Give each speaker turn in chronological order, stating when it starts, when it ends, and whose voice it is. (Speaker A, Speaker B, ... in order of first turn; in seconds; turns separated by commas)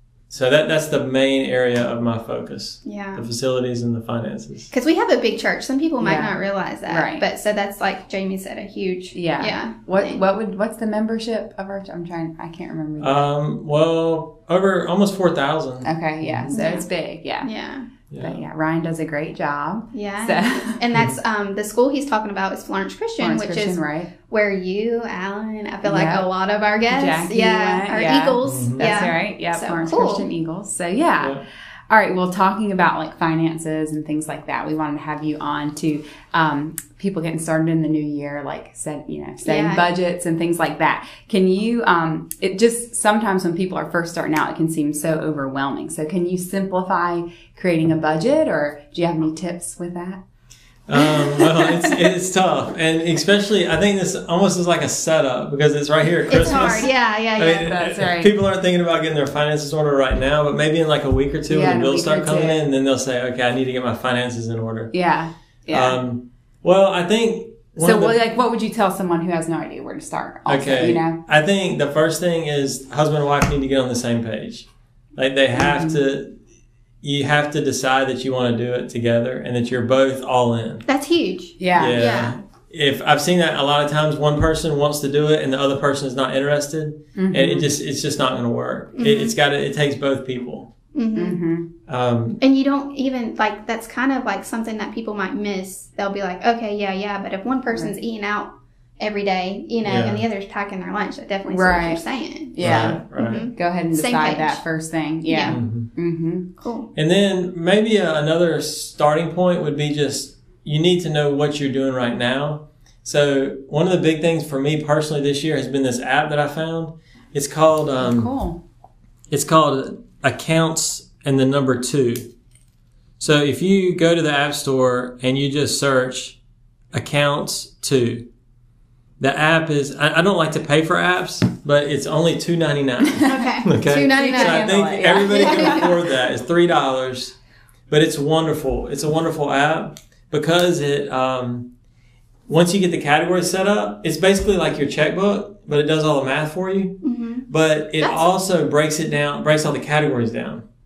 Speaker A: 0.3-4.7, Speaker B: 2.9-3.3, Speaker B: 4.7-10.2, Speaker C: 6.0-7.2, Speaker C: 9.1-13.3, Speaker A: 13.0-16.5, Speaker C: 15.8-17.5, Speaker B: 16.5-16.9, Speaker B: 17.4-17.9, Speaker A: 18.1-18.4, Speaker C: 18.2-20.8, Speaker B: 19.9-30.3, Speaker C: 23.2-24.1, Speaker C: 25.9-26.3, Speaker C: 26.9-50.2, Speaker A: 28.4-28.9, Speaker B: 39.4-39.9, Speaker A: 50.9-64.9, Speaker B: 56.3-57.7, Speaker C: 56.4-56.9, Speaker C: 57.5-58.3, Speaker C: 61.5-62.6, Speaker C: 64.9-66.0, Speaker A: 65.7-68.2, Speaker C: 67.8-71.2, Speaker A: 70.5-76.4, Speaker C: 75.5-76.0, Speaker A: 77.0-80.9, Speaker B: 80.9-82.3, Speaker C: 81.6-82.0, Speaker A: 81.8-90.7, Speaker C: 87.2-87.7, Speaker B: 89.0-89.3, Speaker B: 91.0-91.4, Speaker C: 91.2-91.7, Speaker A: 91.9-92.4, Speaker B: 92.4-104.6, Speaker A: 99.8-100.2, Speaker C: 101.5-106.5, Speaker A: 102.6-103.5, Speaker B: 105.2-105.6, Speaker A: 105.5-105.9, Speaker B: 106.6-106.9, Speaker A: 107.0-118.3, Speaker C: 118.0-118.6, Speaker A: 119.3-122.3, Speaker A: 123.2-126.4, Speaker A: 126.9-128.3, Speaker A: 129.2-137.3, Speaker B: 133.2-134.7, Speaker C: 134.2-135.9, Speaker B: 135.3-135.9, Speaker A: 137.9-141.7, Speaker A: 142.5-150.6, Speaker B: 147.0-147.4, Speaker B: 148.0-148.3